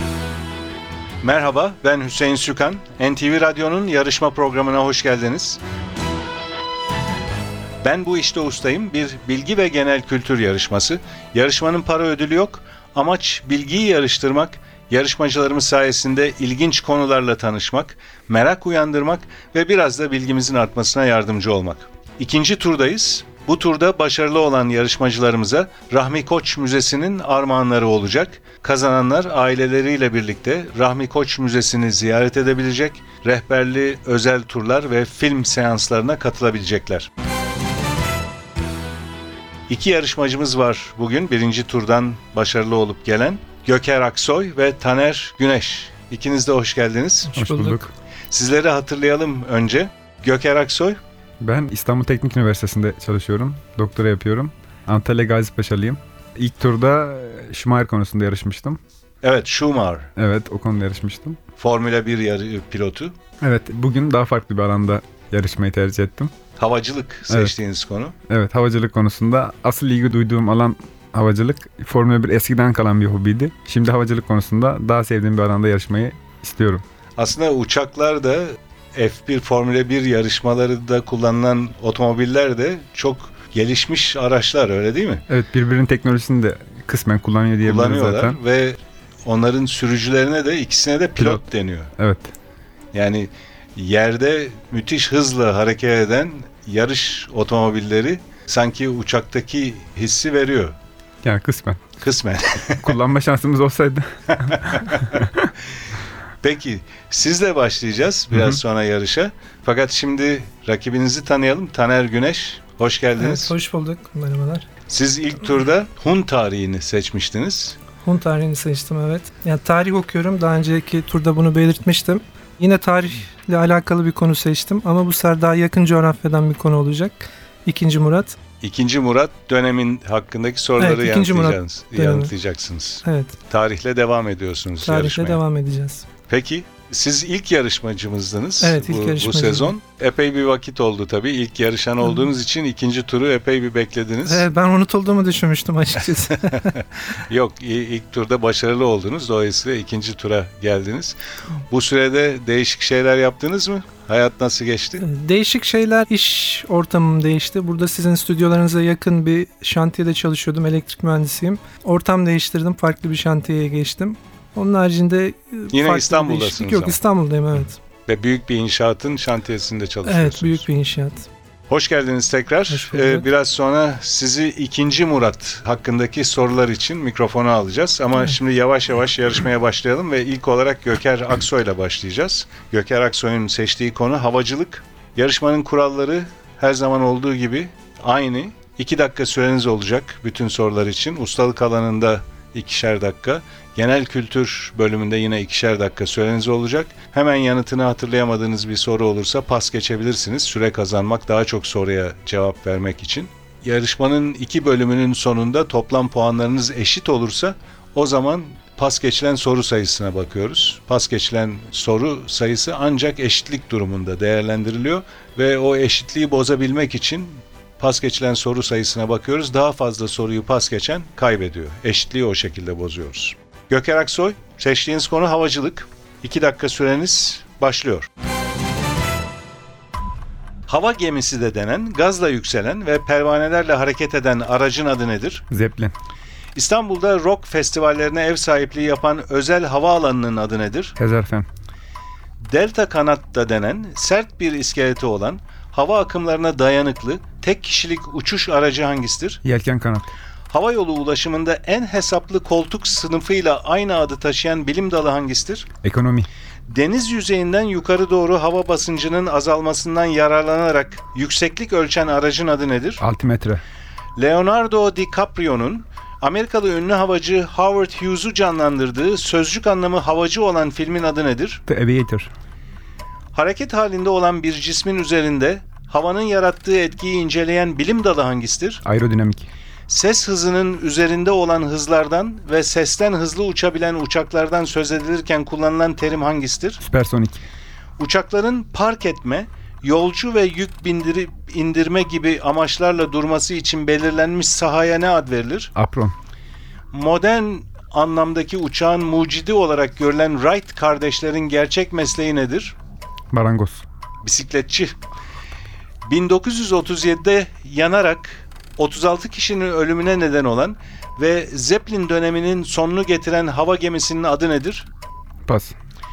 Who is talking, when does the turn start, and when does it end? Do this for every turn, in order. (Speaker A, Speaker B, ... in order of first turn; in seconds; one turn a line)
Speaker A: 1.2-5.6
Speaker A: 7.8-37.1
Speaker A: 39.7-47.4
Speaker B: 47.3-47.8
Speaker C: 47.4-47.9
Speaker A: 48.3-51.0
Speaker C: 51.4-58.8
Speaker A: 59.2-60.1
Speaker C: 60.2-61.4
Speaker A: 61.6-63.2
Speaker C: 63.4-66.3
Speaker A: 66.6-68.2
Speaker C: 68.3-76.8
Speaker A: 77.2-85.3
Speaker C: 85.3-88.4
Speaker A: 87.6-91.9
Speaker C: 91.2-91.4
Speaker C: 92.0-92.3
Speaker A: 92.9-100.8
Speaker C: 101.2-101.8
Speaker A: 102.0-102.9
Speaker C: 102.7-105.5
Speaker A: 106.4-113.5
Speaker B: 113.2-114.7
Speaker A: 114.9-117.8
Speaker B: 118.0-128.4
Speaker A: 128.6-135.4
Speaker B: 130.8-132.3
Speaker B: 133.1-133.4
Speaker B: 134.8-136.1
Speaker A: 136.3-144.4
Speaker B: 138.6-139.7
Speaker B: 144.3-146.8
Speaker A: 147.2-151.2
Speaker A: 151.7-155.0
Speaker B: 155.0-167.8
Speaker A: 165.7-167.0
Speaker A: 168.1-170.6
Speaker B: 170.1-171.3
Speaker A: 171.7-228.1
Speaker B: 172.7-173.2
Speaker A: 230.7-235.4
Speaker C: 235.5-235.9
Speaker A: 236.6-241.0
Speaker C: 241.0-241.5
Speaker A: 242.4-249.4
Speaker C: 249.4-250.1
Speaker A: 250.5-255.7
Speaker C: 255.8-256.3
Speaker A: 256.7-263.0
Speaker C: 263.0-263.6
Speaker A: 264.2-271.6
Speaker C: 271.7-272.3
Speaker A: 273.3-278.8
Speaker C: 278.9-279.5
Speaker A: 279.9-286.8
Speaker C: 286.8-287.4
Speaker A: 288.0-295.7
Speaker C: 295.8-296.1
Speaker A: 296.9-302.8
Speaker C: 303.3-303.9
Speaker A: 304.2-305.0
Speaker A: 306.1-314.9
Speaker C: 315.5-315.8